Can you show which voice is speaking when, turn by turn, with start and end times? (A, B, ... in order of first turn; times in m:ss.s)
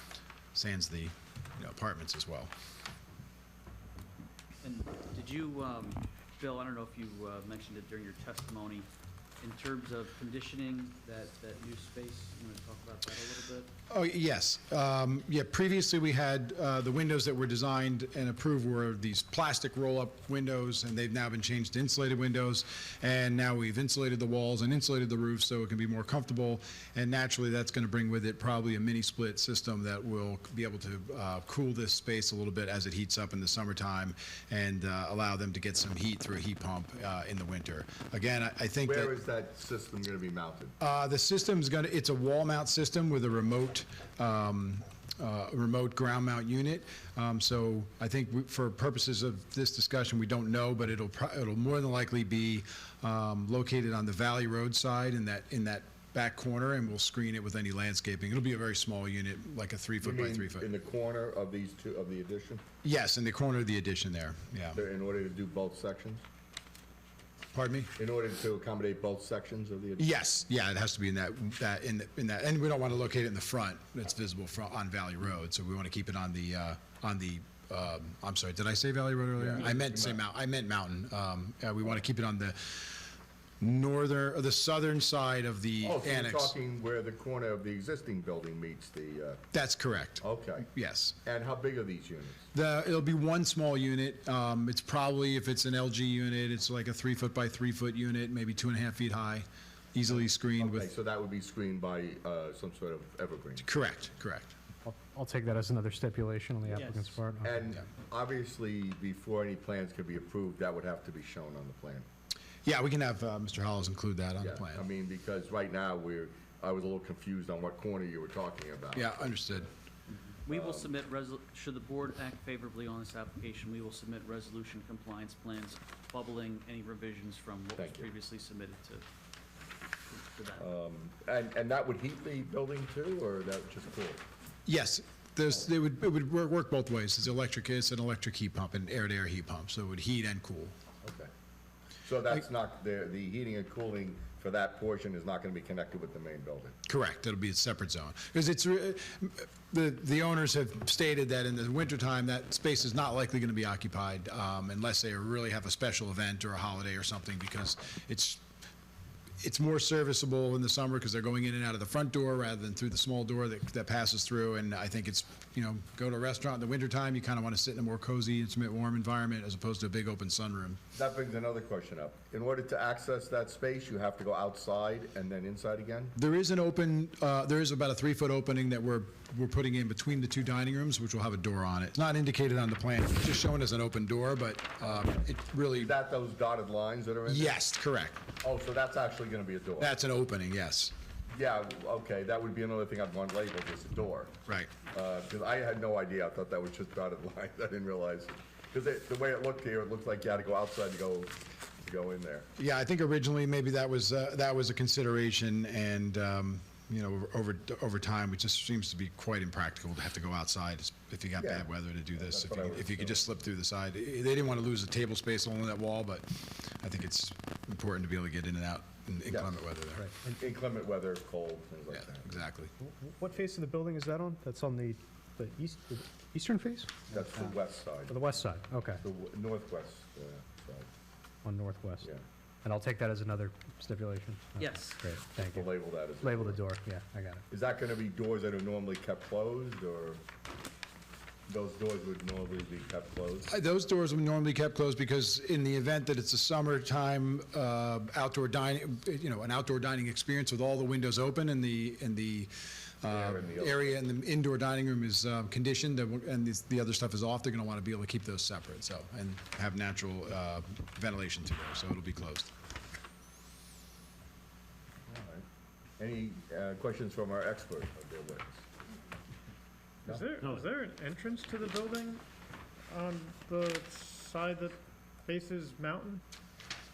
0:00.5-0:02.5 A
0:04.6-0:08.9 B
0:09.4-0:13.7 B
0:13.9-0:39.1 A
0:38.8-0:40.8 C
0:40.8-1:00.7 A
1:00.0-1:02.6 C
1:02.8-1:04.8 A
1:04.7-1:06.2 C
1:07.5-1:07.9 A
1:08.0-1:10.1 C
1:10.0-1:26.5 A
1:19.4-1:20.2 C
1:25.8-1:29.4 C
1:29.5-1:31.2 A
1:30.2-1:30.7 C
1:31.2-1:32.4 C
1:32.5-1:40.9 A
1:40.6-1:43.7 C
1:43.6-1:44.5 A
1:44.8-1:47.7 D
1:46.7-1:47.2 B
1:47.4-1:52.0 C
1:52.6-1:54.8 A
1:54.4-1:59.7 C
1:59.0-1:59.7 A
2:00.4-2:09.0 B
2:00.5-2:00.9 C
2:07.8-2:08.1 C
2:10.1-2:10.6 B
2:10.6-2:14.2 C
2:14.7-2:20.7 A
2:21.0-2:21.3 C
2:22.0-2:26.8 C
2:26.9-2:38.4 A
2:39.4-2:50.8 A
2:50.9-2:56.2 C
2:56.2-3:05.9 A
3:04.8-3:07.6 C
3:07.3-3:08.2 A
3:08.4-3:09.9 C
3:09.8-3:10.9 A
3:11.3-3:14.3 C
3:14.5-3:14.7 A
3:14.9-3:22.5 C
3:22.6-3:40.0 A
3:31.4-3:33.2 C
3:39.3-3:39.7 C
3:40.0-3:40.3 D
3:40.2-3:42.4 C
3:41.9-3:42.7 A
3:42.8-3:47.2 D
3:47.1-3:48.2 C
3:48.1-3:49.0 D
3:49.0-3:50.9 C
3:51.4-3:52.1 D
3:52.6-3:57.4 D
3:54.6-3:55.0 B
3:55.3-3:56.6 C
3:57.5-4:00.2 C
4:01.5-4:03.5 C
4:03.5-4:22.5 A
4:13.0-4:14.0 C
4:25.1-4:25.4 C
4:26.0-4:28.6 C
4:30.1-4:32.2 E
4:32.9-4:36.2 E